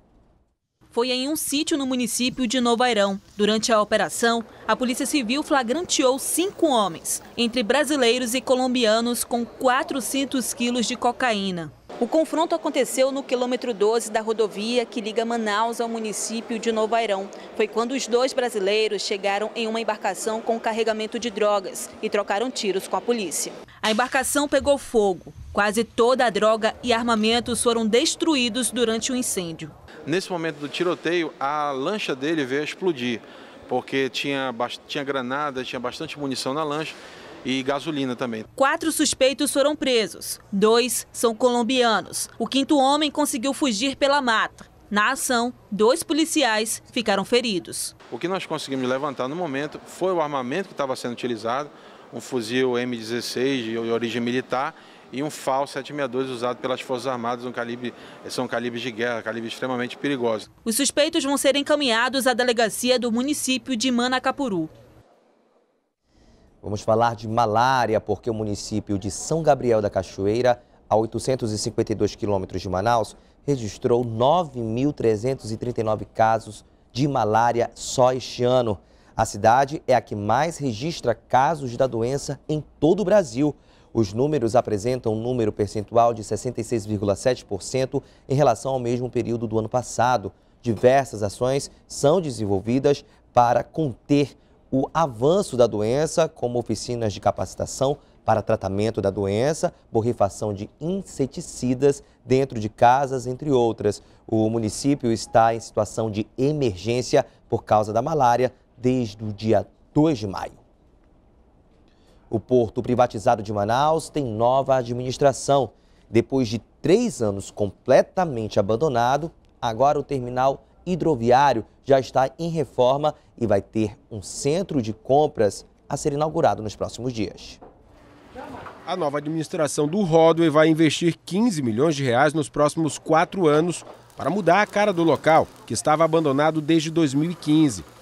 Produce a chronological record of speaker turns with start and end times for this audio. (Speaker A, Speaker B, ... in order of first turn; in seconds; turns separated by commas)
Speaker A: 0.9-29.7, Speaker B: 30.1-38.4, Speaker A: 38.5-47.9, Speaker B: 48.1-60.5, Speaker A: 60.6-64.7, Speaker C: 66.6-110.6, Speaker C: 112.3-127.6, Speaker D: 128.8-137.9